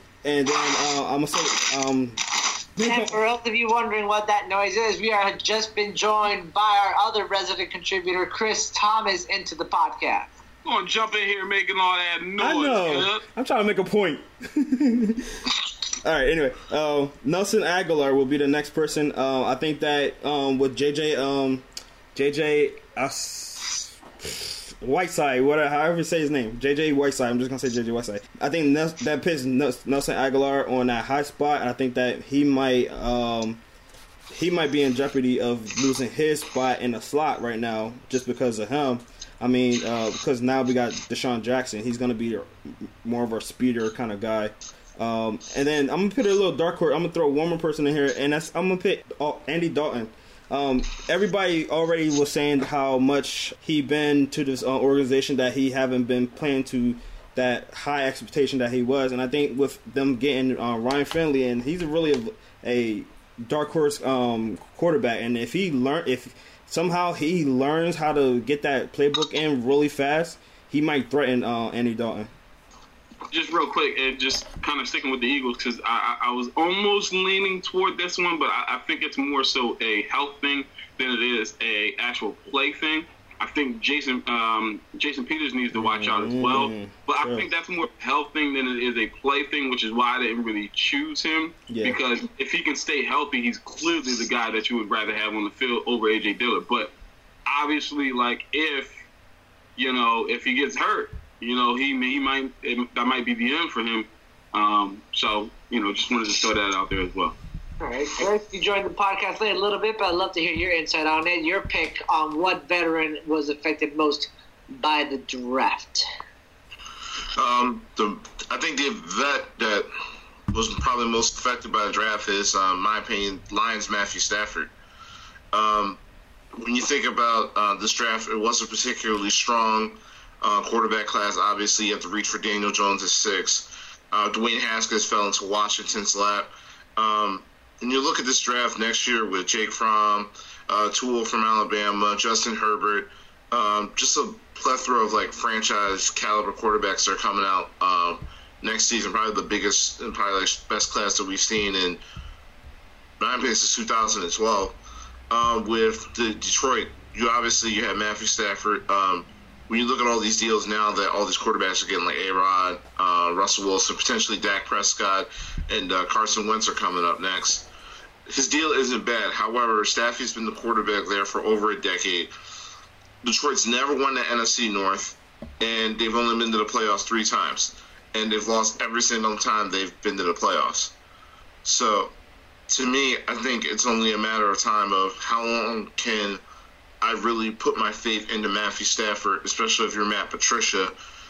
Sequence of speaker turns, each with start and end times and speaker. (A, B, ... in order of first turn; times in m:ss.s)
0:00.2-0:03.1 A
0:02.8-0:10.3 B
0:10.6-0:13.2 C
0:12.4-0:33.6 A
0:34.3-1:12.3 A
1:13.3-1:36.9 C
1:25.7-1:27.5 A
1:31.7-1:32.0 A
1:37.5-1:38.9 C
1:39.8-1:47.4 C
1:47.8-1:56.0 B
1:57.4-1:59.9 D
2:00.5-2:04.7 D
2:05.5-2:06.0 D
2:06.6-2:32.0 D
2:33.2-2:34.8 D
2:35.3-2:47.7 D
2:48.3-2:52.3 D
2:53.2-3:00.9 D
3:01.6-3:02.1 D
3:02.7-3:06.4 D
3:07.0-3:10.9 D